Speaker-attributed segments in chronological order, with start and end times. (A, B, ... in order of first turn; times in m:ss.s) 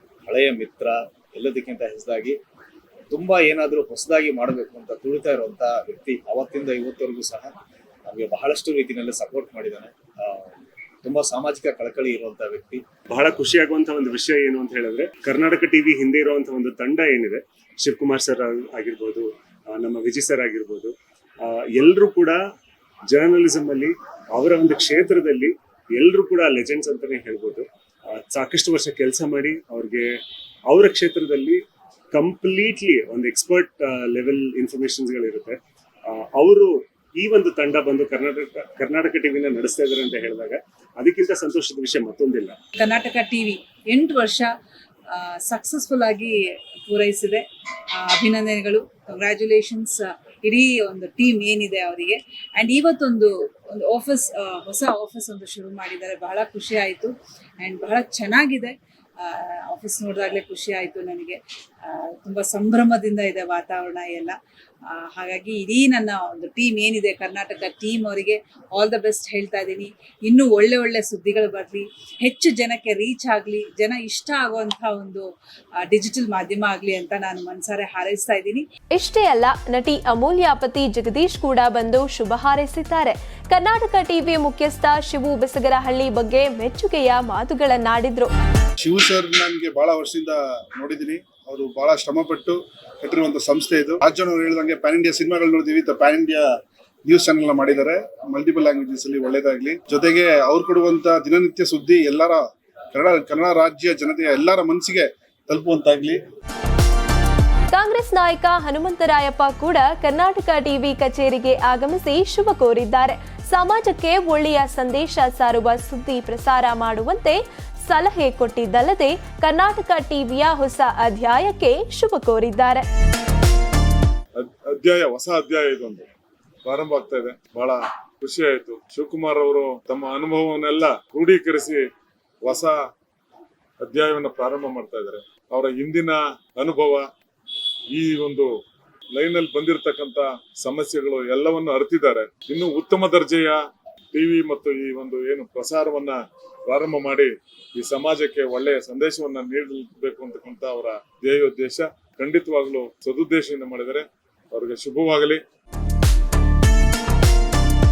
0:00.2-0:02.4 A
0:03.1-0:07.5 A
0:08.0-0:10.4 A
0:11.0-0:12.8 A
0:13.1-0:20.9 B
0:21.4-0:22.4 B
0:23.1-0:27.6 B
0:28.2-0:30.1 B
0:30.7-0:31.6 B
0:32.1-0:35.6 B
0:36.3-0:42.5 B
0:42.8-0:44.5 C
0:45.1-1:15.3 C
1:15.8-1:18.7 C
1:18.9-1:28.3 D
1:28.8-1:36.4 E
1:37.1-1:46.2 E
1:47.7-2:02.8 D
2:04.4-2:06.0 F
2:06.6-2:11.8 F
2:12.4-2:12.8 F
2:13.8-2:17.0 F
2:17.9-2:18.5 F
2:19.1-2:23.6 F
2:24.1-2:26.2 F
2:26.7-2:35.4 F